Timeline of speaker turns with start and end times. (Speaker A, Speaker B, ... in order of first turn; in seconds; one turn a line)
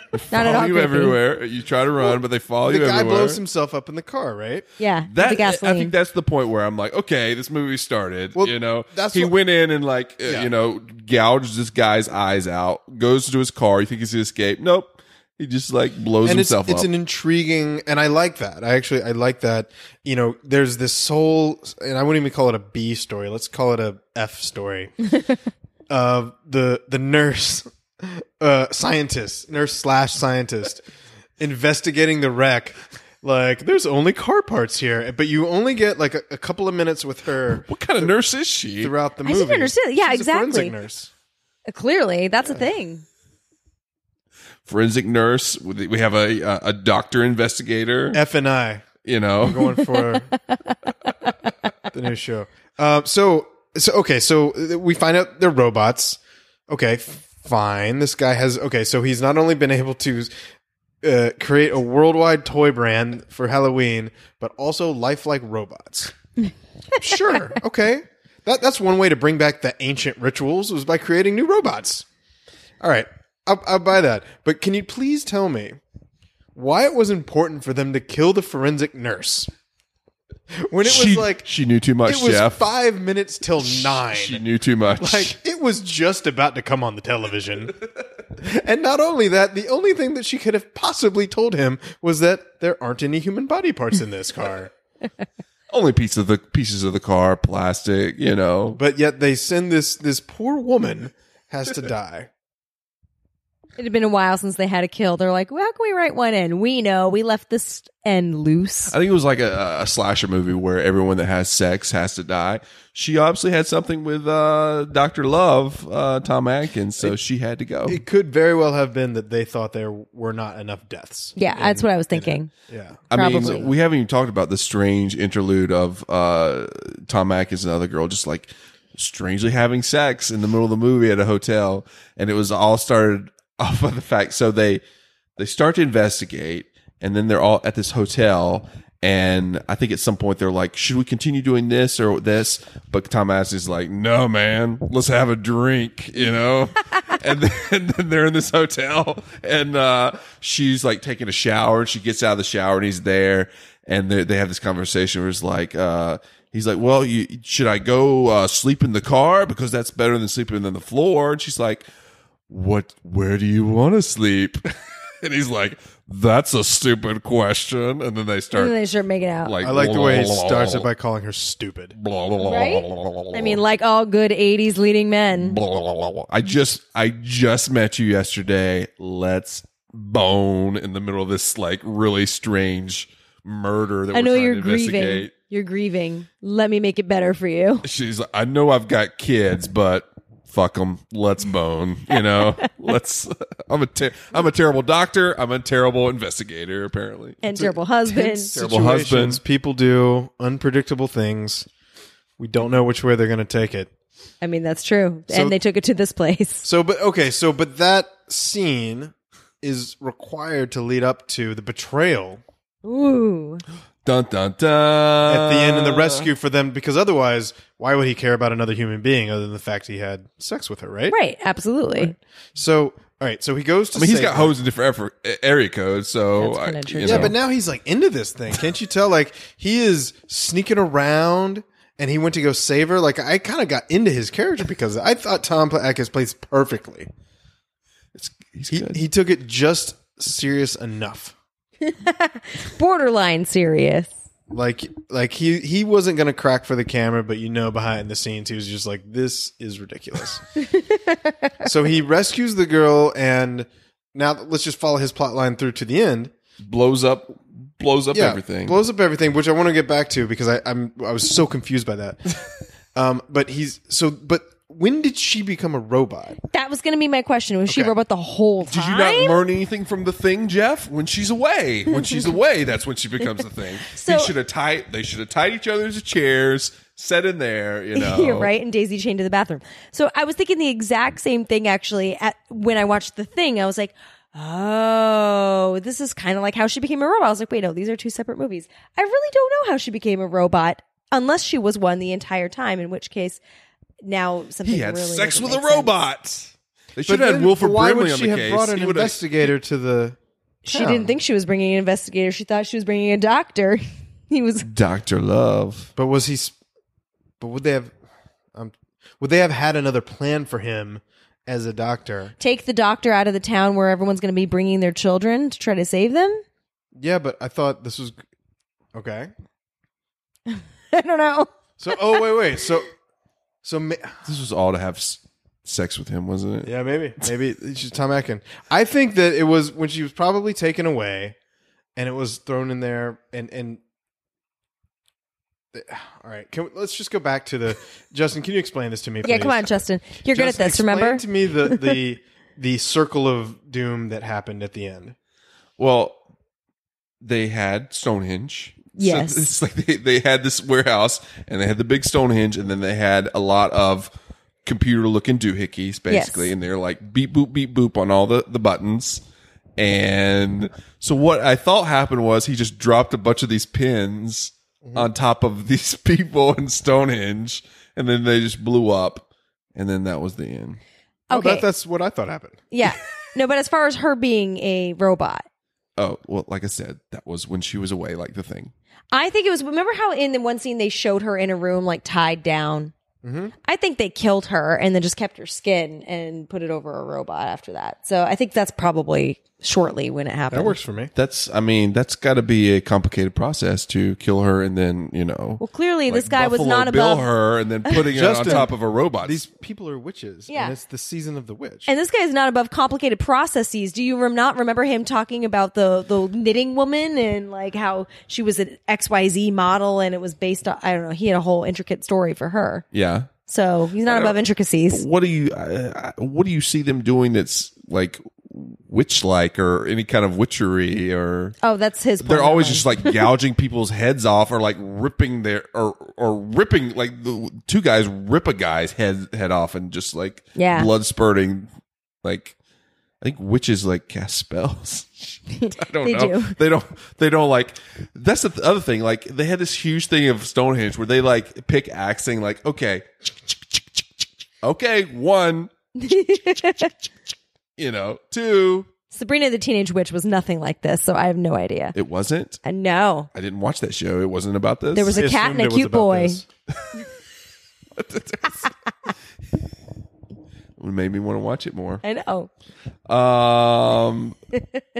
Speaker A: 0.1-3.4
Speaker B: 0.3-1.2
Speaker C: 2.0-4.7
Speaker B: 4.8-5.9
Speaker A: 5.1-16.9
Speaker C: 8.4-9.3
Speaker C: 10.2-10.5
Speaker C: 16.2-25.0
Speaker C: 25.9-30.8
Speaker C: 31.4-38.1
Speaker A: 37.5-38.9
Speaker C: 38.8-41.1
Speaker B: 39.2-40.8
Speaker B: 41.7-43.0
Speaker A: 44.7-48.2
Speaker C: 48.1-48.9
Speaker A: 49.0-49.8
Speaker C: 49.4-50.3
Speaker B: 50.3-51.3
Speaker C: 51.9-60.3
Speaker C: 61.0-66.1
Speaker C: 67.0-72.1
Speaker C: 72.8-75.8
Speaker C: 76.5-79.5
Speaker C: 80.5-81.5
Speaker A: 80.8-82.7
Speaker C: 82.0-84.5
Speaker A: 83.6-85.4
Speaker C: 85.0-87.8
Speaker C: 88.3-94.7
Speaker A: 95.7-98.8
Speaker C: 98.8-102.3
Speaker B: 103.8-108.9
Speaker A: 108.9-118.0
Speaker C: 117.9-123.7
Speaker B: 121.4-122.5
Speaker A: 123.1-134.8
Speaker B: 123.1-123.7
Speaker A: 135.4-161.8
Speaker A: 162.5-164.7
Speaker A: 165.2-168.8
Speaker B: 168.6-169.5
Speaker A: 169.4-170.9
Speaker C: 169.6-171.9
Speaker A: 172.0-173.6
Speaker B: 172.4-175.6
Speaker A: 175.4-185.3
Speaker B: 184.1-187.8
Speaker A: 187.8-197.4
Speaker B: 192.1-192.9
Speaker B: 197.4-198.5
Speaker C: 197.5-201.7
Speaker A: 198.4-199.4
Speaker C: 202.4-203.9
Speaker B: 204.4-206.7
Speaker C: 205.3-205.6
Speaker C: 206.6-212.4
Speaker B: 212.8-213.6
Speaker A: 214.1-216.3
Speaker C: 215.3-221.2
Speaker B: 221.1-222.2
Speaker C: 222.0-224.5
Speaker A: 223.9-227.3
Speaker B: 226.4-227.3
Speaker C: 227.0-237.1
Speaker A: 238.2-239.0
Speaker C: 238.7-241.3
Speaker B: 241.8-244.1
Speaker C: 244.5-250.4
Speaker B: 250.7-251.5
Speaker C: 251.6-256.3
Speaker A: 256.6-258.8
Speaker C: 258.1-262.4
Speaker C: 262.9-266.4
Speaker B: 266.5-269.4
Speaker C: 267.7-267.9
Speaker A: 268.7-278.5
Speaker B: 273.9-274.3
Speaker B: 277.9-293.4
Speaker B: 294.0-295.9
Speaker A: 294.6-299.2
Speaker C: 297.1-300.2
Speaker B: 300.6-304.7
Speaker C: 300.7-301.1
Speaker A: 304.6-305.9
Speaker C: 306.0-306.6
Speaker C: 307.4-307.9
Speaker C: 308.5-312.4
Speaker B: 312.4-316.4
Speaker C: 316.9-318.2
Speaker C: 318.9-319.3
Speaker B: 320.5-322.2
Speaker C: 321.8-322.9
Speaker C: 323.6-324.2
Speaker A: 324.2-326.7
Speaker C: 326.6-331.4
Speaker C: 332.0-333.8
Speaker C: 335.7-339.8
Speaker B: 339.2-341.9
Speaker C: 340.3-345.1
Speaker A: 345.8-346.2
Speaker A: 347.2-354.1
Speaker B: 349.0-349.5
Speaker A: 354.6-359.2
Speaker B: 356.1-356.5
Speaker A: 359.8-370.8
Speaker C: 364.8-365.1
Speaker B: 371.3-371.6
Speaker C: 371.3-372.6
Speaker B: 372.7-375.5
Speaker A: 376.0-378.7
Speaker B: 379.1-382.9
Speaker C: 383.2-383.5
Speaker B: 383.6-390.8
Speaker C: 390.5-391.1
Speaker A: 391.2-399.4
Speaker B: 395.6-397.3
Speaker B: 397.9-398.7
Speaker C: 398.0-401.9
Speaker B: 400.5-400.8
Speaker B: 401.9-412.8
Speaker A: 412.9-413.3
Speaker B: 413.5-415.0
Speaker A: 414.1-414.4
Speaker A: 414.9-421.6
Speaker B: 421.6-423.3
Speaker A: 422.2-431.7
Speaker B: 430.6-430.9
Speaker A: 432.2-432.6
Speaker A: 433.2-443.8
Speaker B: 435.5-436.6
Speaker A: 444.6-445.7
Speaker B: 446.0-446.9
Speaker A: 447.8-448.9
Speaker B: 449.1-452.0
Speaker A: 451.9-452.6
Speaker B: 452.6-453.3
Speaker A: 453.3-455.2
Speaker B: 454.9-456.4
Speaker C: 455.1-456.5
Speaker A: 458.0-458.7
Speaker A: 460.8-462.0
Speaker B: 462.0-462.5
Speaker A: 463.1-464.4
Speaker B: 464.6-464.8